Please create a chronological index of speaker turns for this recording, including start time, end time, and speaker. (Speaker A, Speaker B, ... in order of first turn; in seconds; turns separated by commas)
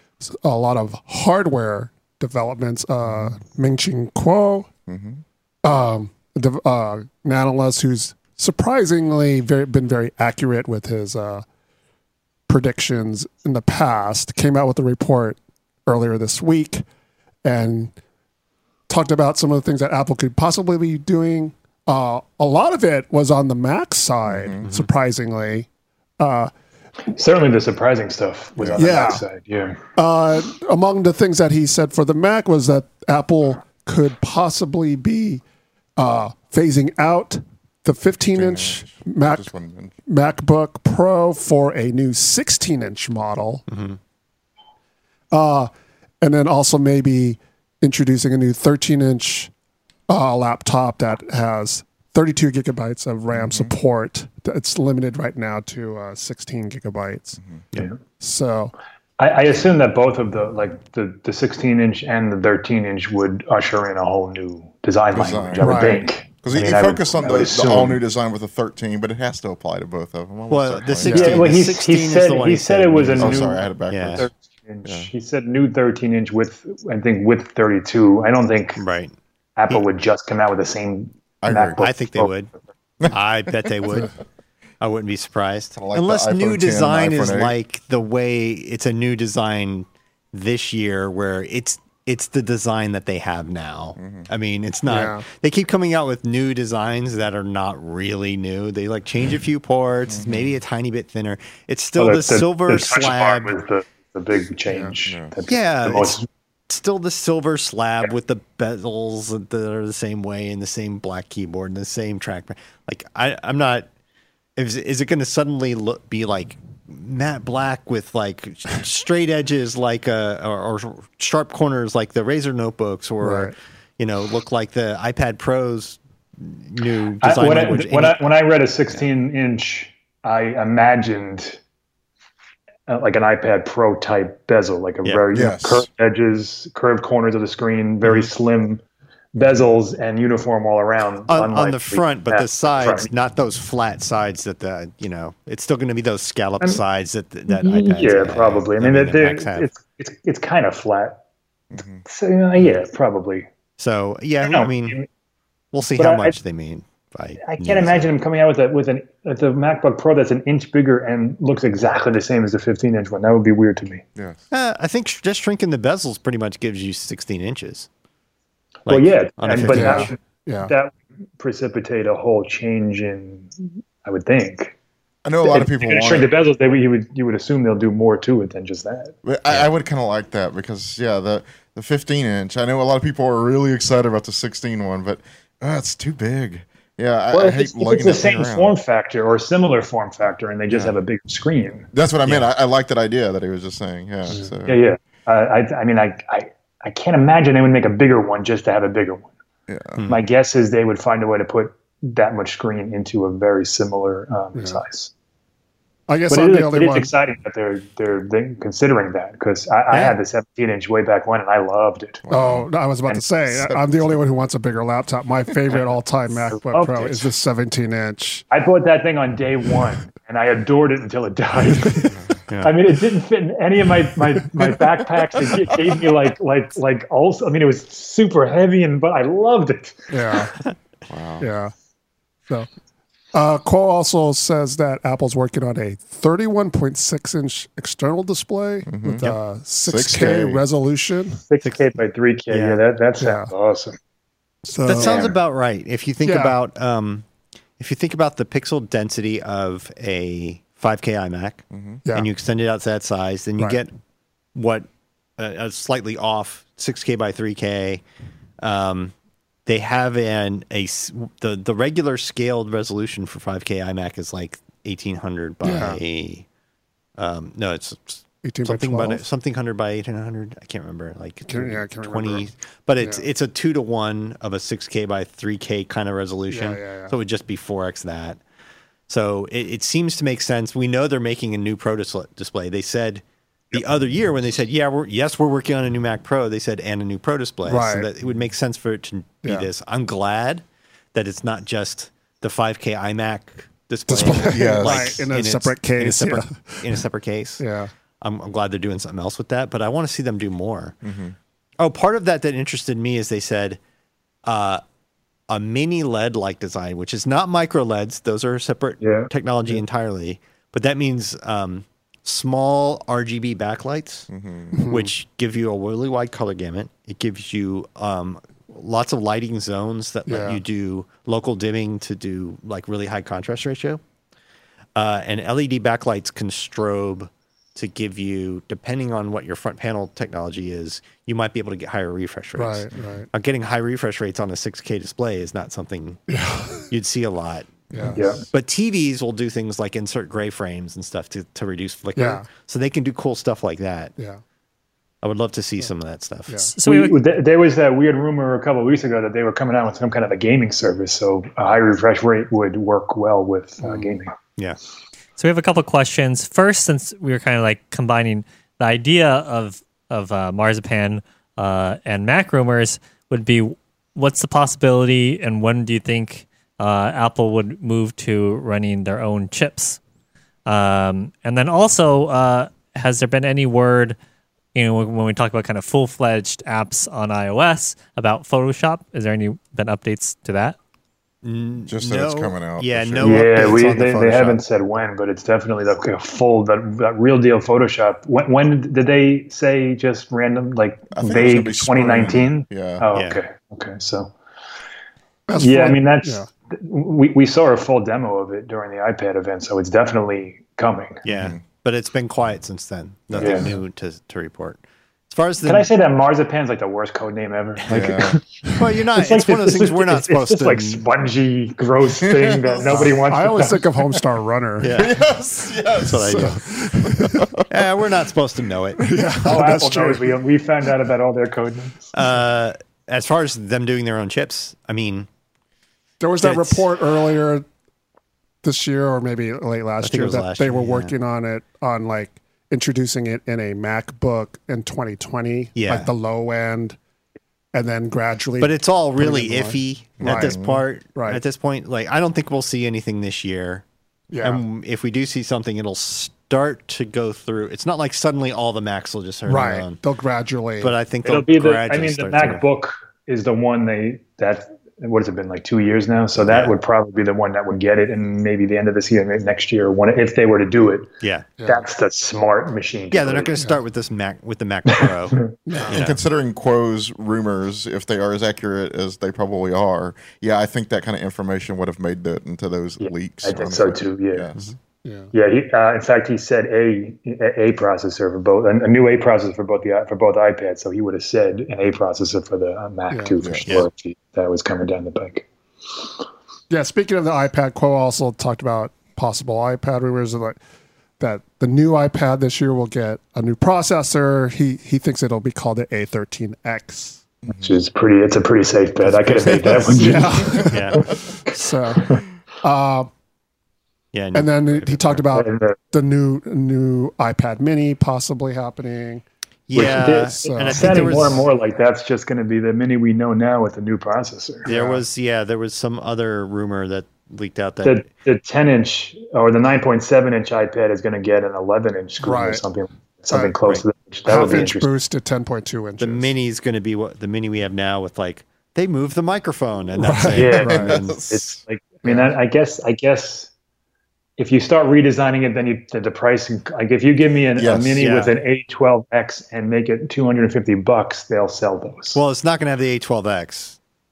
Speaker A: 0.2-4.7, Speaker B: 3.1-3.3, Speaker B: 4.9-5.2, Speaker A: 5.6-11.4, Speaker A: 12.5-16.9, Speaker A: 17.4-17.9, Speaker A: 18.9-25.7, Speaker B: 24.3-24.7, Speaker A: 26.2-26.5, Speaker C: 27.1-29.8, Speaker B: 28.6-29.0, Speaker A: 28.8-29.2, Speaker A: 30.0-35.4, Speaker A: 36.0-39.5, Speaker B: 38.4-40.0, Speaker A: 40.1-43.6, Speaker D: 43.7-44.0, Speaker A: 45.3-49.5, Speaker A: 50.1-57.4, Speaker B: 53.3-53.7, Speaker A: 58.2-58.7, Speaker C: 59.2-68.0, Speaker B: 65.1-71.6, Speaker A: 65.6-66.0, Speaker D: 70.5-74.3, Speaker C: 71.0-73.6, Speaker B: 73.2-74.3, Speaker C: 74.2-78.8, Speaker D: 78.8-79.1, Speaker C: 79.6-82.5, Speaker B: 81.4-81.8, Speaker D: 81.8-82.5, Speaker B: 83.0-83.7, Speaker D: 83.1-84.1, Speaker D: 84.8-103.5, Speaker B: 85.8-87.5, Speaker B: 94.0-94.3, Speaker A: 94.9-95.2, Speaker B: 100.1-100.5, Speaker C: 102.0-106.3, Speaker A: 104.7-104.9, Speaker B: 105.1-105.3, Speaker D: 105.5-106.2, Speaker D: 106.7-113.9, Speaker D: 114.6-128.2, Speaker A: 123.2-123.5, Speaker C: 127.2-131.6, Speaker C: 132.9-138.8, Speaker B: 135.3-135.9, Speaker D: 138.0-138.3, Speaker C: 139.3-143.1, Speaker D: 141.3-149.7, Speaker C: 147.5-151.2, Speaker B: 151.7-152.1, Speaker C: 152.1-153.5, Speaker D: 153.8-155.0, Speaker C: 154.4-155.1, Speaker D: 155.7-158.1, Speaker C: 156.0-156.4, Speaker C: 157.4-164.0, Speaker B: 164.2-164.4, Speaker D: 164.5-167.9, Speaker D: 168.9-170.1, Speaker C: 168.9-174.8, Speaker A: 169.7-170.7, Speaker B: 175.2-176.3, Speaker C: 175.5-179.2, Speaker B: 179.2-188.8, Speaker C: 187.3-191.9, Speaker D: 190.7-190.9, Speaker B: 191.9-194.8, Speaker C: 194.7-199.3, Speaker B: 199.7-200.0, Speaker D: 200.0-200.2, Speaker C: 200.1-205.1, Speaker A: 204.6-204.8, Speaker A: 206.1-207.1, Speaker C: 206.3-212.2, Speaker D: 209.9-210.2, Speaker B: 212.3-212.7, Speaker A: 212.3-218.4, Speaker C: 216.4-217.3, Speaker C: 218.5-230.1, Speaker D: 222.5-222.8, Speaker A: 230.1-230.5, Speaker B: 231.1-231.5, Speaker A: 231.4-231.7, Speaker A: 233.3-241.4, Speaker B: 238.9-240.6, Speaker C: 241.5-244.0, Speaker D: 242.5-242.8, Speaker A: 243.2-243.5, Speaker A: 244.7-245.3, Speaker D: 244.8-247.3, Speaker B: 245.0-245.3, Speaker A: 246.2-246.6, Speaker D: 247.8-253.9, Speaker B: 251.7-252.0, Speaker D: 254.6-254.9, Speaker D: 255.4-258.0, Speaker D: 258.6-259.1, Speaker D: 259.7-266.5, Speaker A: 265.6-266.0, Speaker D: 267.2-278.4, Speaker A: 268.4-269.2, Speaker A: 271.5-272.4, Speaker A: 273.0-273.3, Speaker A: 276.5-277.1, Speaker D: 279.1-297.6, Speaker A: 287.7-288.1, Speaker A: 289.4-289.7, Speaker A: 294.1-297.0, Speaker B: 294.2-295.2, Speaker A: 297.6-297.9, Speaker D: 298.2-301.0, Speaker B: 301.0-301.4, Speaker D: 301.8-303.8, Speaker D: 304.4-304.8, Speaker D: 305.5-314.3, Speaker C: 309.0-309.3, Speaker B: 314.3-314.8, Speaker A: 314.7-315.1, Speaker D: 314.9-324.0, Speaker A: 320.3-320.6, Speaker D: 325.0-336.2, Speaker A: 332.6-333.3, Speaker A: 336.3-336.9, Speaker D: 336.9-344.1, Speaker A: 337.9-338.3, Speaker B: 338.0-338.3, Speaker C: 338.1-338.4, Speaker A: 342.2-342.5, Speaker A: 344.2-344.4, Speaker D: 345.2-346.7, Speaker A: 346.5-346.7, Speaker E: 346.8-347.2, Speaker C: 346.8-354.3, Speaker E: 355.4-370.0, Speaker E: 370.7-374.2, Speaker E: 374.8-380.8, Speaker D: 381.4-384.6, Speaker B: 381.9-383.8, Speaker C: 383.2-394.3, Speaker B: 391.1-393.1, Speaker D: 393.1-393.4, Speaker A: 395.5-396.5, Speaker C: 395.6-401.2, Speaker D: 401.2-405.9, Speaker B: 401.3-401.6, Speaker B: 403.3-403.7, Speaker C: 403.4-403.7, Speaker C: 405.6-414.2, Speaker D: 407.8-411.1, Speaker B: 407.9-408.4, Speaker B: 412.2-413.1, Speaker A: 412.9-415.0, Speaker D: 414.8-415.2, Speaker B: 414.9-417.7, Speaker D: 416.0-416.8, Speaker A: 416.1-417.5, Speaker D: 417.7-419.1, Speaker A: 419.0-420.4, Speaker C: 419.4-422.1, Speaker D: 422.1-425.3, Speaker A: 426.2-427.7, Speaker D: 426.4-426.8, Speaker A: 428.6-437.0, Speaker D: 430.0-431.1, Speaker D: 435.8-436.1, Speaker A: 437.7-440.6, Speaker D: 438.6-443.9, Speaker B: 440.2-440.8, Speaker A: 441.1-441.4, Speaker A: 444.3-444.6, Speaker D: 444.4-450.0, Speaker A: 449.5-450.9, Speaker D: 450.8-452.6, Speaker C: 451.2-461.1, Speaker D: 456.4-456.8, Speaker D: 461.2-461.5, Speaker A: 461.6-461.8, Speaker C: 461.6-463.6, Speaker D: 463.1-466.2, Speaker C: 465.0-465.5, Speaker A: 465.7-466.0, Speaker B: 465.8-474.7, Speaker C: 473.0-474.5, Speaker A: 475.0-475.3, Speaker C: 475.3-486.1, Speaker A: 483.1-483.4, Speaker B: 483.4-483.7, Speaker A: 486.7-490.6, Speaker A: 491.2-497.2, Speaker B: 497.5-497.8, Speaker C: 497.6-501.1, Speaker B: 499.4-501.1, Speaker A: 499.9-503.1, Speaker D: 500.7-501.1, Speaker C: 502.0-502.2, Speaker D: 504.1-505.2, Speaker A: 504.3-509.2, Speaker C: 505.3-505.8, Speaker D: 509.7-511.4, Speaker C: 509.8-514.7, Speaker A: 509.8-511.4, Speaker A: 514.7-515.0, Speaker D: 514.7-518.0, Speaker C: 517.8-524.9, Speaker A: 522.2-522.6, Speaker A: 523.3-523.6, Speaker A: 524.3-526.3, Speaker D: 526.0-531.2, Speaker A: 530.0-530.9, Speaker C: 530.4-533.5, Speaker B: 530.5-532.3, Speaker C: 534.4-542.2, Speaker B: 537.6-538.1, Speaker D: 538.0-538.4, Speaker D: 542.1-543.8